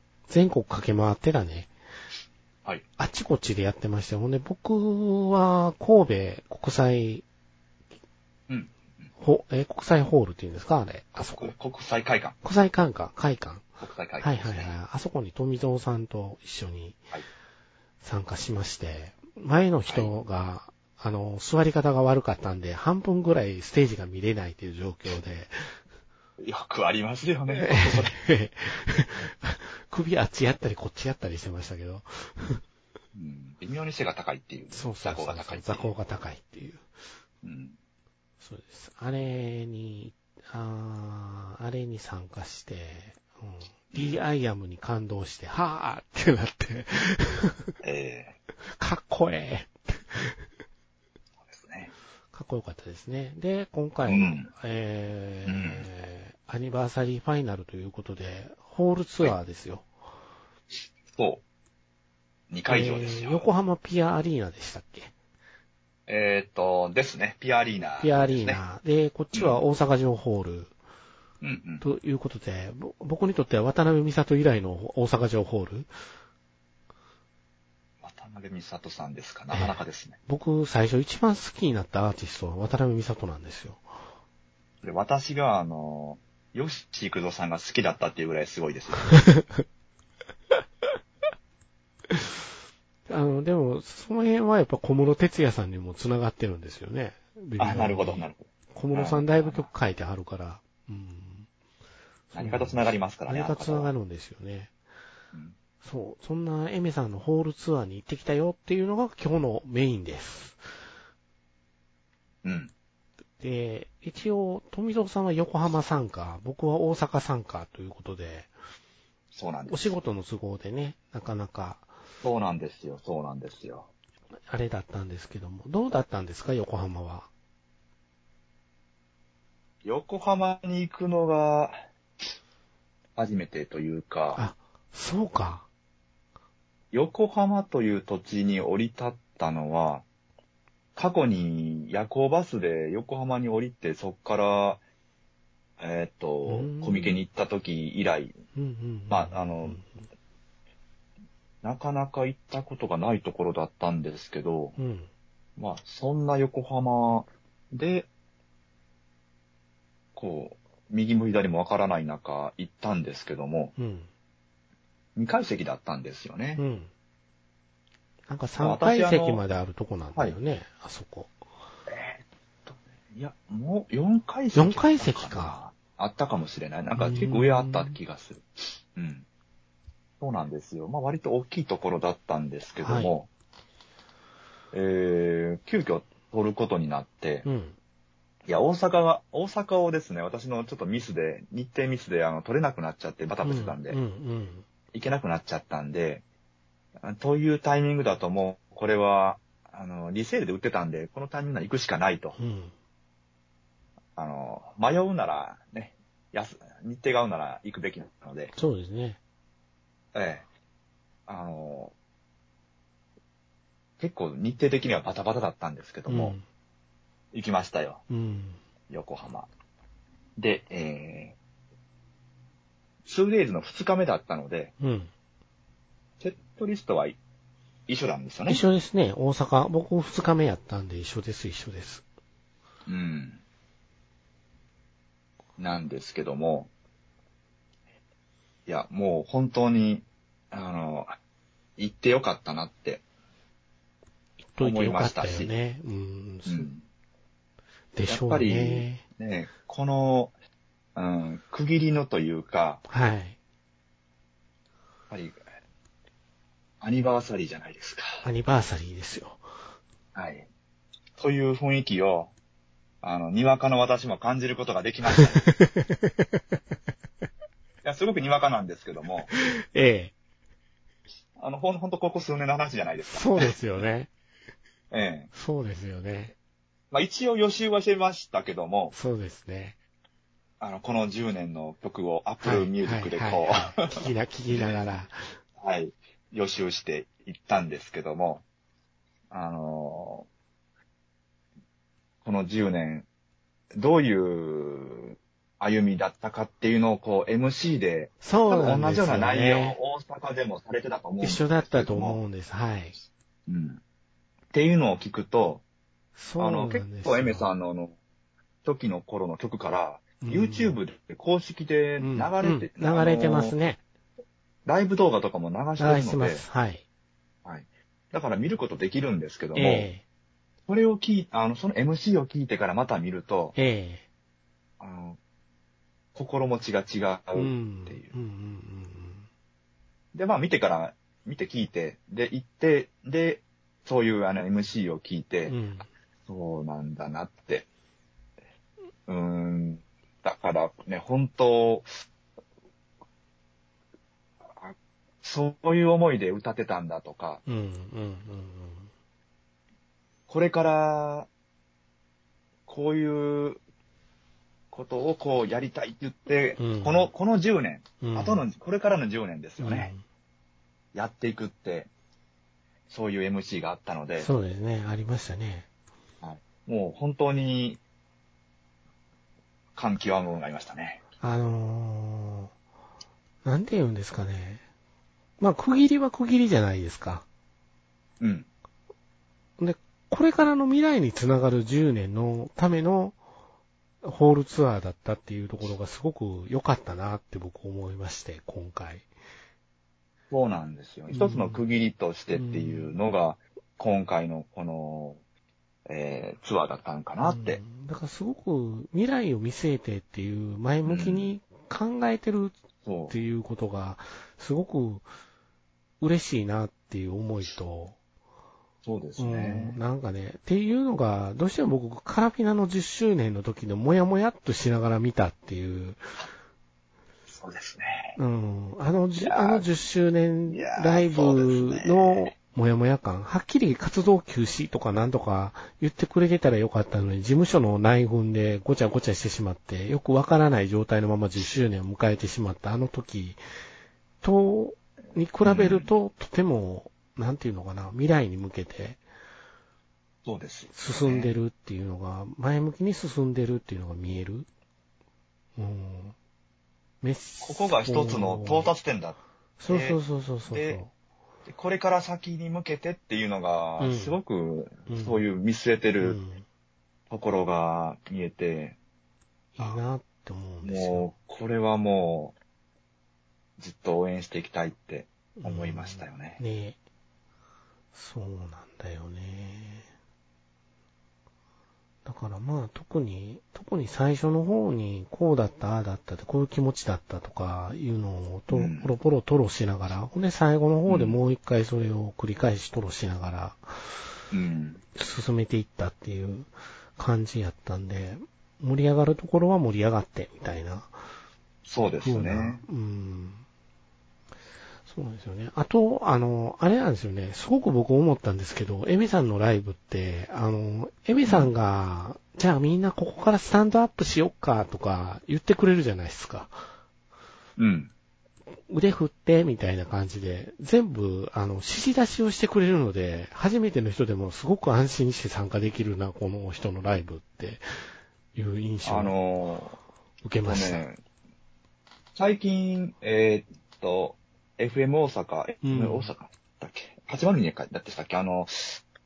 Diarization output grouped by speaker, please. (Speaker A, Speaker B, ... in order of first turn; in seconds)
Speaker A: 0.3-1.7, 3.0-7.2, 9.2-11.5, 12.4-13.7, 14.2-17.0, 18.0-25.7, 27.5-32.6, 34.7-36.9, 38.4-47.7, 48.7-50.4, 52.3-59.9, 62.7-65.1, 68.0-70.7, 71.8-75.9, 79.5-83.8, 89.1-89.6, 93.1-101.5, 102.3-104.7, 105.8-110.6, 113.4-118.5, 119.7-121.9, 124.5-127.3, 134.3-135.7, 146.4-147.2, 148.6-150.0, 154.8-155.1, 163.8-164.1, 166.6-166.9, 168.3-171.3, 174.5-175.6, 177.0-178.0, 182.8-183.1, 187.4-187.8, 193.4-194.7, 202.4-202.7, 208.5-209.2, 216.1-216.4, 218.1-218.6, 224.8-225.1, 228.5-232.0, 244.5-246.7, 247.9-249.0, 252.9-253.4, 258.2-259.4, 265.1-266.6, 269.3-270.1, 273.1-274.1, 275.3-276.3, 278.9-279.8, 282.4-285.4, 298.2-299.8, 301.2-303.0, 306.2-307.5, 310.2-310.8, 312.0-313.8, 315.8-316.8, 319.5-320.0, 323.6-324.0, 327.4-329.3, 335.5-335.9, 347.5-348.9, 356.6-357.1, 358.0-358.4, 359.6-360.0, 364.2-365.7, 371.2-372.5, 373.4-374.6, 375.4-377.2, 379.6-383.2, 384.0-389.1, 391.1-391.6, 392.3-393.0, 397.2-402.6, 403.1-405.1, 406.0-408.0, 409.2-416.0, 418.2-433.4, 434.2-439.0, 440.7-444.5, 445.6-446.1, 447.0-448.7, 449.6-450.9, 453.8-454.2, 454.9-455.2, 456.0-456.4, 459.6-461.1, 465.4-466.8, 467.9-469.9, 472.1-484.0, 484.9-490.9, 492.0-493.4, 494.9-506.6, 508.7-517.6, 518.3-519.1, 520.2-520.8, 525.6-526.1
Speaker B: 8.5-8.8, 11.3-12.4, 13.8-14.7, 26.4-28.2, 33.1-35.9, 37.4-37.8, 43.9-44.2, 47.8-48.4, 51.5-51.9, 54.1-54.5, 55.5-55.9, 61.1-61.4, 62.5-63.4, 66.1-68.6, 69.3-69.6, 71.4-71.9, 78.0-80.2, 84.8-89.2, 97.6-99.7, 102.3-103.9, 112.4-112.7, 119.3-120.0, 122.2-123.9, 129.8-131.8, 133.2-134.4, 136.9-140.0, 141.0-144.8, 145.8-148.4, 149.1-149.8, 151.6-154.8, 155.6-158.1, 160.2-163.7, 165.2-166.6, 168.6-169.4, 171.9-179.3, 180.2-183.3, 184.7-187.5, 188.5-194.0, 194.9-196.2, 197.0-202.4, 204.2-208.5, 210.1-210.5, 211.3-211.9, 214.0-216.4, 217.3-218.0, 218.9-219.5, 220.4-221.4, 223.0-224.7, 226.2-227.2, 227.9-228.6, 232.9-233.4, 235.6-236.7, 238.7-241.1, 241.8-243.0, 244.6-245.5, 246.5-246.8, 248.1-250.3, 250.9-252.8, 255.1-255.4, 256.8-258.2, 260.1-260.5, 261.2-262.3, 263.0-265.5, 267.8-269.3, 271.4-273.5, 274.9-275.3, 276.9-278.9, 280.6-284.8, 285.6-288.4, 289.3-290.3, 292.2-293.1, 293.7-302.2, 303.5-303.8, 304.5-305.6, 306.4-308.0, 308.6-313.6, 314.7-316.4, 317.4-319.9, 320.7-323.6, 324.8-325.2, 326.1-328.1, 330.1-335.6, 336.3-337.7, 339.1-341.9, 344.6-347.4, 350.3-351.3, 352.7-353.6, 354.7-359.9, 360.9-361.9, 362.9-364.3, 366.2-367.8, 369.8-371.0, 378.2-378.5, 390.3-395.2, 395.9-397.6, 400.9-401.3, 402.8-403.2, 408.8-409.8, 417.3-418.2, 419.2-419.7, 420.5-422.3, 435.4-435.9, 440.2-441.3, 447.4-450.8, 451.5-456.2, 457.1-458.8, 460.6-462.4, 463.6-466.4, 478.5-478.9, 480.9-481.2, 484.3-484.8, 491.6-492.6, 501.2-501.5, 507.6-507.9, 518.9-519.8, 520.5-521.0, 522.1-528.8